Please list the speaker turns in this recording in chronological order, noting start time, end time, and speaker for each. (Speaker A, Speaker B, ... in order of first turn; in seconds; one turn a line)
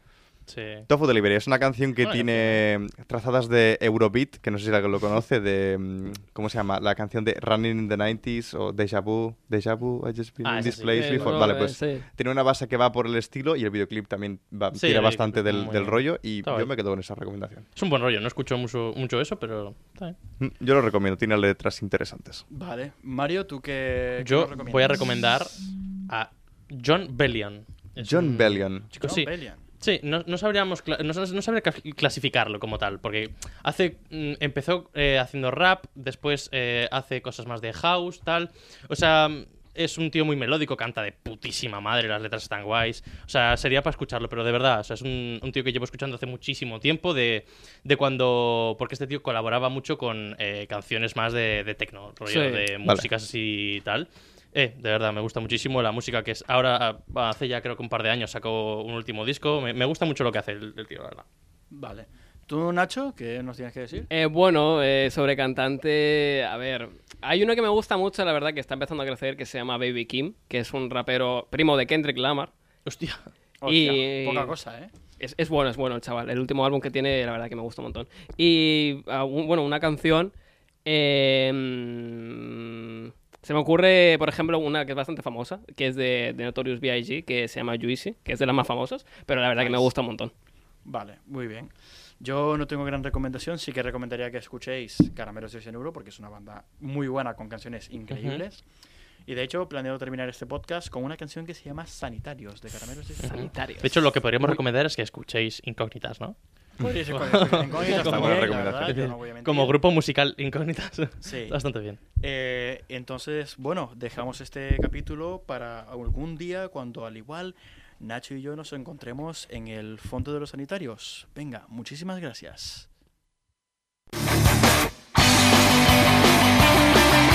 Speaker A: 0.5-0.9
Speaker B: 0.9-17.6
Speaker A: 2.0-2.6
Speaker A: 10.4-11.5
Speaker C: 10.9-12.1
Speaker A: 14.7-16.7
Speaker A: 17.8-20.1
Speaker B: 20.4-22.4
Speaker D: 22.5-25.1
Speaker A: 24.2-61.2
Speaker B: 28.0-28.9
Speaker D: 28.9-29.6
Speaker C: 52.3-52.6
Speaker D: 61.7-64.1
Speaker C: 64.1-72.5
Speaker A: 72.8-73.2
Speaker D: 73.6-74.9
Speaker C: 73.7-74.5
Speaker C: 75.2-80.3
Speaker C: 80.9-90.3
Speaker D: 89.6-89.9
Speaker D: 90.8-98.6
Speaker A: 98.1-98.4
Speaker D: 99.3-103.5
Speaker C: 103.2-104.6
Speaker A: 103.3-106.4
Speaker D: 106.8-109.8
Speaker A: 107.1-112.0
Speaker B: 107.8-109.0
Speaker D: 111.2-111.6
Speaker D: 112.2-122.9